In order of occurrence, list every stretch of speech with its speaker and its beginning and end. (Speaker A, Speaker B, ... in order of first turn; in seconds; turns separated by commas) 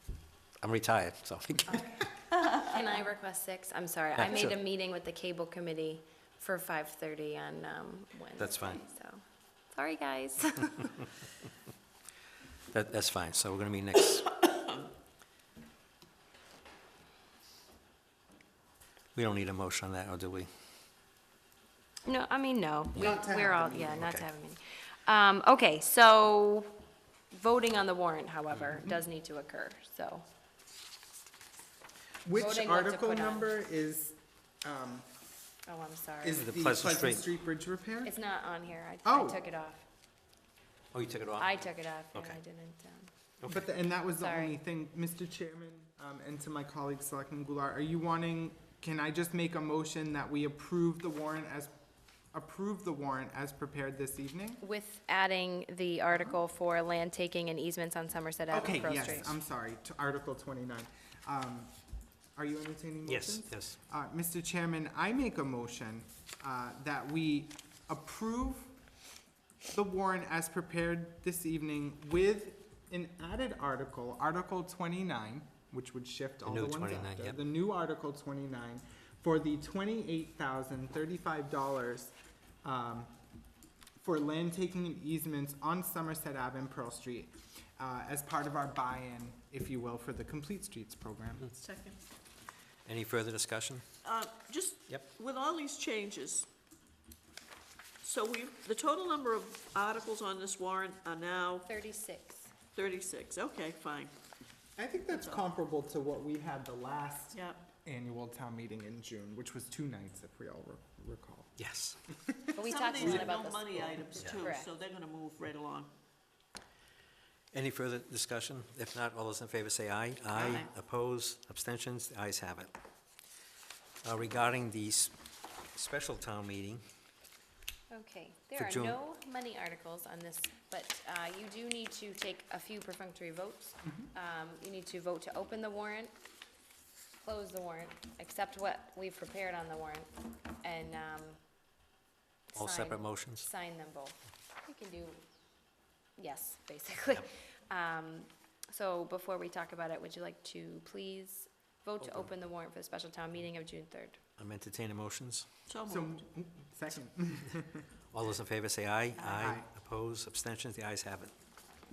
Speaker A: 0.6-2.1, Speaker B: 1.7-10.8, Speaker A: 4.2-4.5, Speaker A: 8.4-8.8, Speaker A: 12.7-14.4, Speaker A: 19.1-20.5, Speaker B: 22.1-26.7, Speaker C: 22.9-24.1, Speaker B: 27.3-30.2, Speaker C: 32.2-35.1, Speaker B: 32.3-33.5, Speaker B: 35.6-36.4, Speaker C: 36.2-38.1, Speaker A: 36.4-37.2, Speaker B: 38.0-39.8, Speaker C: 39.0-39.4, Speaker A: 40.9-42.4, Speaker B: 41.4-43.1, Speaker A: 43.4-43.6, Speaker C: 43.5-51.7, Speaker B: 44.2-44.5, Speaker C: 52.3-54.6, Speaker B: 54.6-59.4, Speaker C: 58.5-61.7, Speaker C: 62.4-68.7, Speaker A: 63.0-63.8, Speaker C: 69.7-83.1, Speaker A: 76.5-77.4, Speaker C: 84.0-91.5, Speaker D: 91.5-92.0, Speaker A: 92.8-93.8, Speaker D: 94.0-96.5, Speaker D: 98.0-101.7, Speaker B: 101.7-102.5, Speaker D: 102.7-104.1, Speaker C: 104.8-111.5, Speaker D: 105.1-105.4, Speaker D: 107.3-107.6, Speaker A: 111.6-112.0, Speaker C: 112.2-113.2, Speaker B: 112.5-114.7, Speaker D: 112.6-115.9, Speaker A: 114.2-114.4, Speaker A: 117.5-122.7, Speaker D: 120.3-120.7, Speaker A: 124.0-125.1, Speaker A: 125.7-126.8, Speaker B: 127.9-136.1, Speaker A: 128.6-129.0, Speaker B: 137.2-140.1, Speaker B: 140.6-141.4, Speaker B: 142.5-145.2, Speaker A: 142.6-143.5, Speaker B: 146.2-154.2, Speaker A: 152.0-152.3, Speaker A: 154.4-155.4, Speaker D: 155.7-156.2, Speaker C: 155.9-157.8, Speaker A: 158.1-161.3, Speaker D: 159.2-159.5, Speaker C: 159.4-159.7